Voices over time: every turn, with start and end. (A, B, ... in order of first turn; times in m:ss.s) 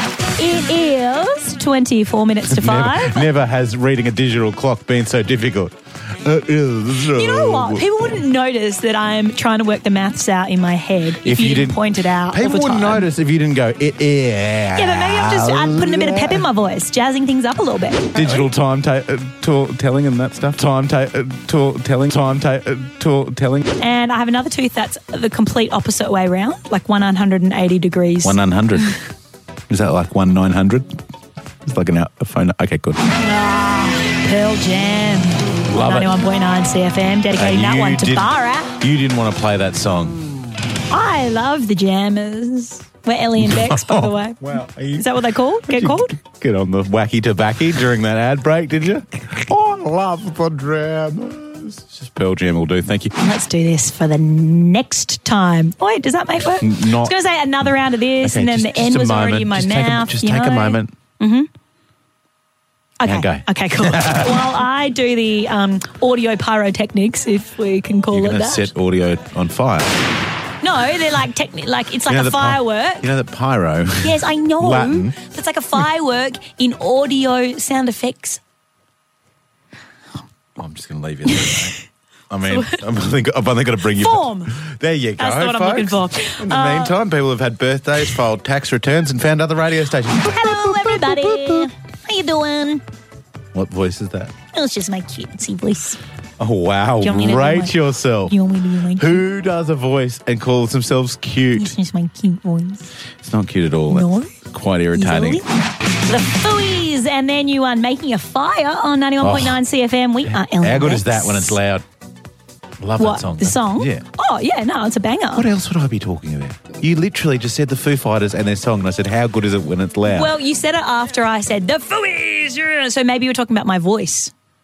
0:00.3-0:03.3 A
0:02.5-0:08.2 B
0:07.1-0:13.1 A
0:11.2-0:16.5 B
0:14.7-0:18.3 A
0:18.1-0:23.6 B
0:23.8-0:28.4 A
0:28.2-0:29.0 B
0:29.7-0:31.0 B
0:31.6-0:33.0 B
0:33.2-0:38.7 A
0:35.7-0:36.1 B
0:37.4-0:40.2 B
0:40.9-0:44.4 A
0:43.4-0:53.1 B
0:45.0-0:46.2 A
0:53.2-1:01.5 A
0:56.6-1:00.9 B
1:03.0-1:08.7 A
1:03.0-1:04.5 B
1:08.1-1:09.9 B
1:10.6-1:13.1 A
1:12.1-1:15.2 B
1:14.0-1:18.4 A
1:20.6-1:21.8 B
1:21.3-1:21.7 A
1:22.3-1:31.7 B
1:22.4-1:22.8 A
1:23.9-1:24.6 A
1:25.2-1:26.9 A
1:30.2-1:32.8 A
1:33.5-1:34.3 B
1:34.5-1:36.0 A
1:36.4-1:38.3 B
1:37.0-1:39.2 A
1:39.0-1:41.7 B
1:41.6-1:42.9 A
1:43.2-1:45.4 B
1:43.9-1:44.3 A
1:44.9-1:45.5 A
1:46.0-1:51.6 A
1:49.2-1:49.6 B
1:50.2-1:51.8 B
1:52.8-1:54.0 B
1:53.0-1:55.5 A
1:55.3-2:00.3 B
2:00.1-2:04.3 A